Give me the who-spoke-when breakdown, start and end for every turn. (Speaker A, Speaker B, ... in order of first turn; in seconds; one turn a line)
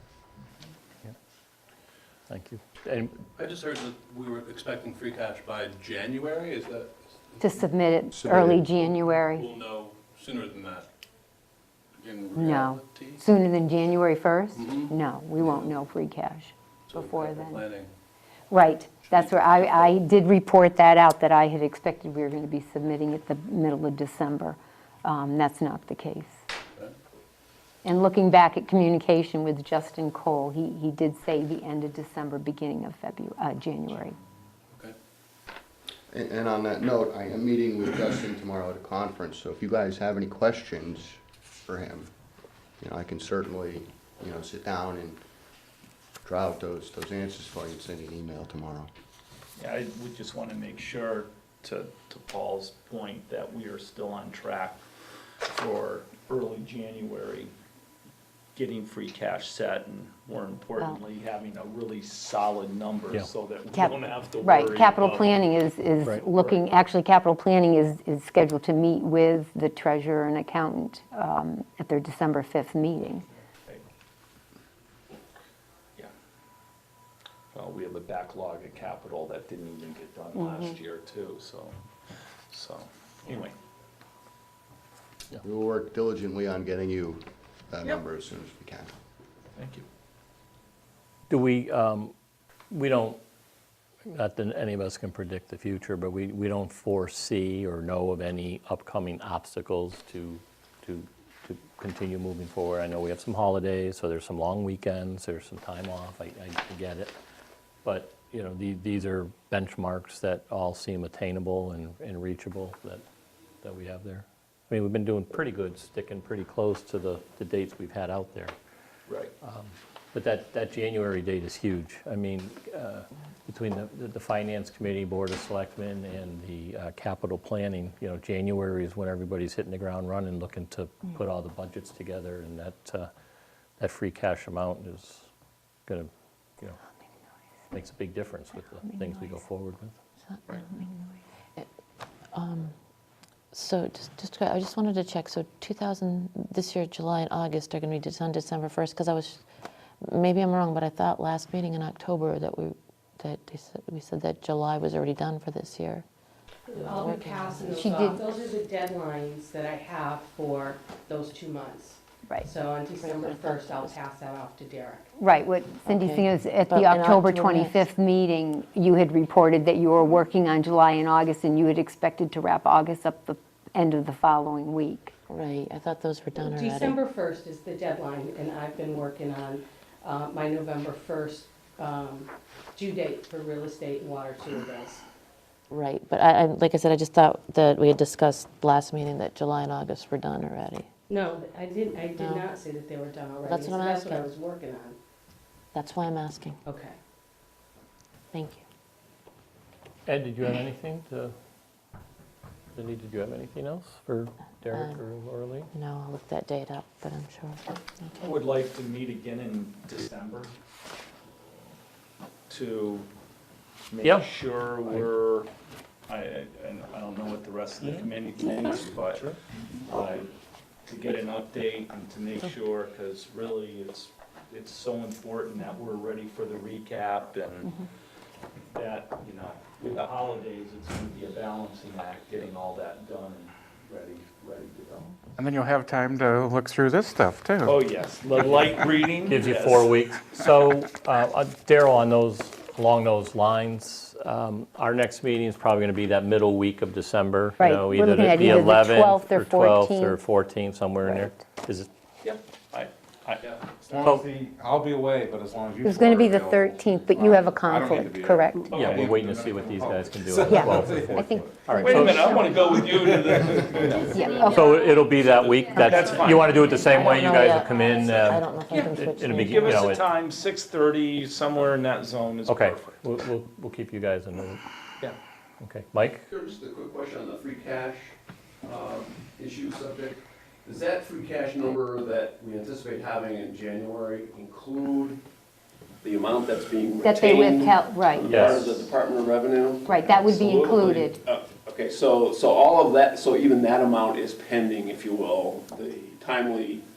Speaker A: 2.3-3.1
Speaker B: 3.3-7.6
Speaker C: 7.4-9.6
Speaker D: 8.2-8.6
Speaker B: 9.2-10.9
Speaker B: 12.0-13.2
Speaker C: 12.3-17.6
Speaker B: 14.5-15.7
Speaker B: 16.9-17.9
Speaker C: 18.5-26.3
Speaker B: 19.0-20.0
Speaker C: 27.8-34.1
Speaker D: 36.1-42.1
Speaker D: 42.8-45.2
Speaker D: 46.2-48.9
Speaker E: 49.6-54.8
Speaker E: 55.5-57.5
Speaker E: 58.5-65.6
Speaker C: 63.7-73.3
Speaker E: 77.5-81.7
Speaker E: 82.5-83.5
Speaker D: 85.4-88.9
Speaker E: 89.6-89.8
Speaker A: 91.3-92.1
Speaker A: 92.7-93.2
Speaker A: 94.1-107.1
Speaker A: 107.8-113.0
Speaker A: 113.6-118.5
Speaker A: 119.4-133.1
Speaker A: 133.8-135.3
Speaker A: 135.9-136.8
Speaker A: 137.7-139.9
Speaker F: 142.3-142.7
Speaker F: 143.5-149.4
Speaker F: 150.0-156.0
Speaker G: 156.7-165.1
Speaker F: 156.7-157.8
Speaker C: 157.7-158.3
Speaker F: 163.0-163.9
Speaker C: 165.2-175.2
Speaker F: 165.8-167.8
Speaker F: 175.3-177.0
Speaker G: 176.3-185.0
Speaker F: 185.7-190.9
Speaker G: 191.1-195.0
Speaker F: 192.2-192.4
Speaker F: 193.4-194.3
Speaker F: 195.7-196.6
Speaker G: 196.7-197.0
Speaker F: 198.3-198.6
Speaker A: 200.1-201.3
Speaker A: 202.7-205.7
Speaker F: 204.7-205.0
Speaker F: 205.7-208.3
Speaker E: 208.2-210.5
Speaker E: 212.5-213.1
Speaker E: 213.9-215.5
Speaker E: 216.1-220.3
Speaker E: 220.8-227.8
Speaker E: 228.7-235.1
Speaker H: 235.4-237.7
Speaker E: 237.6-239.9
Speaker A: 239.2-251.9
Speaker C: 247.6-250.2
Speaker C: 251.0-251.3
Speaker E: 252.2-253.6
Speaker I: 253.8-261.6
Speaker A: 253.9-254.2
Speaker C: 255.8-258.8
Speaker E: 258.7-259.2
Speaker A: 258.7-262.5
Speaker C: 260.4-262.8
Speaker E: 261.8-264.4
Speaker I: 262.9-264.4
Speaker C: 263.8-264.8
Speaker A: 264.4-268.5
Speaker E: 265.1-267.1
Speaker F: 266.8-269.9
Speaker C: 266.8-267.2
Speaker E: 268.7-273.0
Speaker A: 269.0-270.1
Speaker A: 272.4-274.6
Speaker A: 275.6-276.2
Speaker J: 276.3-285.2
Speaker J: 286.0-296.9
Speaker C: 287.0-288.6
Speaker A: 288.2-288.8
Speaker C: 289.8-291.2